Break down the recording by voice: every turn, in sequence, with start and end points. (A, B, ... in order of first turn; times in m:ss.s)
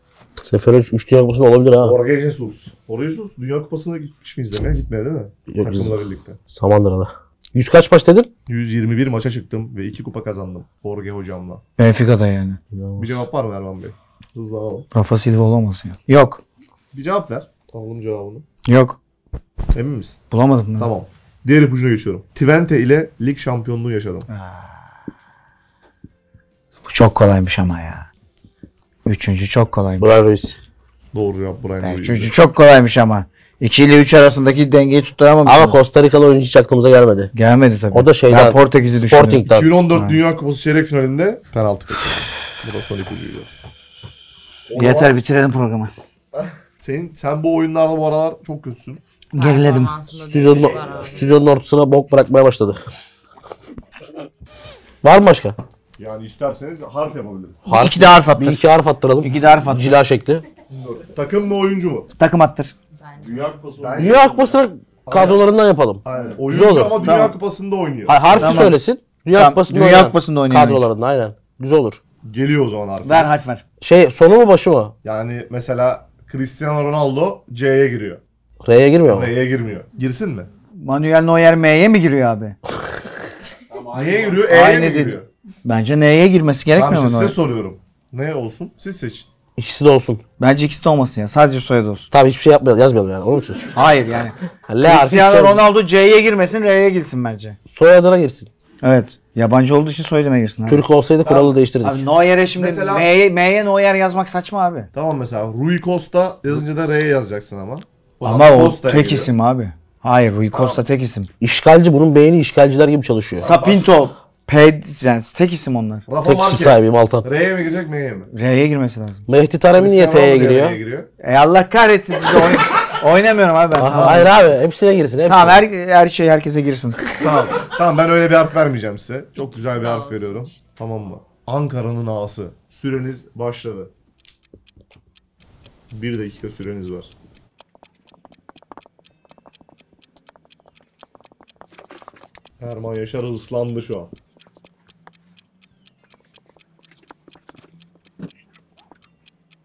0:00.4-0:02.0 A
0:01.8-0:06.4 B
0:05.5-0:08.3 A
0:08.5-0:11.6 B
0:11.8-0:12.6 C
0:12.7-0:13.2 A
0:13.0-0:14.9 B
0:14.9-0:16.4 C
0:16.9-0:18.4 B
0:18.6-0:19.0 C
0:19.7-0:20.2 B
0:20.3-0:20.9 C
0:20.8-0:24.3 B
0:24.3-0:24.8 C
0:26.8-0:28.1 C
0:29.0-0:30.1 C
0:30.0-0:30.6 A
0:31.1-0:32.4 B
0:31.8-0:35.8 C
0:35.4-0:37.3 A
0:37.3-0:40.2 C
0:37.9-0:39.7 A
0:39.4-0:43.6 B
0:44.7-0:45.1 B
0:44.8-0:45.9 C
0:46.3-0:49.0 B
0:49.3-0:50.0 C
0:49.3-0:51.3 D
0:50.2-0:52.8 A
0:50.4-0:51.2 B
0:55.0-0:55.6 A
0:56.0-0:57.6 B
0:57.6-1:00.4 A
0:57.7-0:58.6 C
0:59.2-1:00.0 C
1:00.7-1:02.1 B
1:02.2-1:02.7 C
1:03.0-1:03.6 D
1:03.2-1:04.5 E
1:03.8-1:04.5 B
1:04.0-1:07.0 A
1:05.0-1:05.4 B
1:06.0-1:08.7 B
1:07.0-1:07.3 C
1:08.1-1:12.0 A
1:08.3-1:08.8 C
1:09.3-1:10.8 C
1:12.2-1:13.4 B
1:13.0-1:13.6 C
1:13.8-1:14.9 A
1:15.0-1:18.2 B
1:18.6-1:19.3 A
1:19.1-1:20.5 B
1:20.8-1:22.6 C
1:23.7-1:24.5 E
1:23.9-1:25.3 B
1:24.4-1:27.4 C
1:26.7-1:29.3 B
1:29.6-1:30.2 A
1:30.4-1:32.1 C
1:32.1-1:33.7 A
1:33.7-1:37.6 C
1:34.7-1:35.6 A
1:37.7-1:38.5 A
1:38.8-1:40.8 C
1:40.7-1:42.0 A
1:41.2-1:41.6 B
1:41.8-1:44.9 C
1:42.5-1:43.1 B
1:44.9-1:49.3 B
1:48.2-1:51.3 C
1:50.5-1:50.8 B
1:51.4-1:53.5 A
1:53.4-1:54.0 B
1:53.4-1:56.0 C
1:56.1-1:58.3 B
1:56.2-1:57.3 A
1:58.3-1:59.2 C
1:59.3-2:00.8 A
1:59.7-2:01.1 B
2:01.2-2:04.4 C
2:03.8-2:05.6 A
2:03.9-2:04.3 B
2:05.2-2:07.1 C
2:07.2-2:13.9 B
2:09.4-2:10.6 D
2:15.9-2:17.1 B
2:22.6-2:24.1 B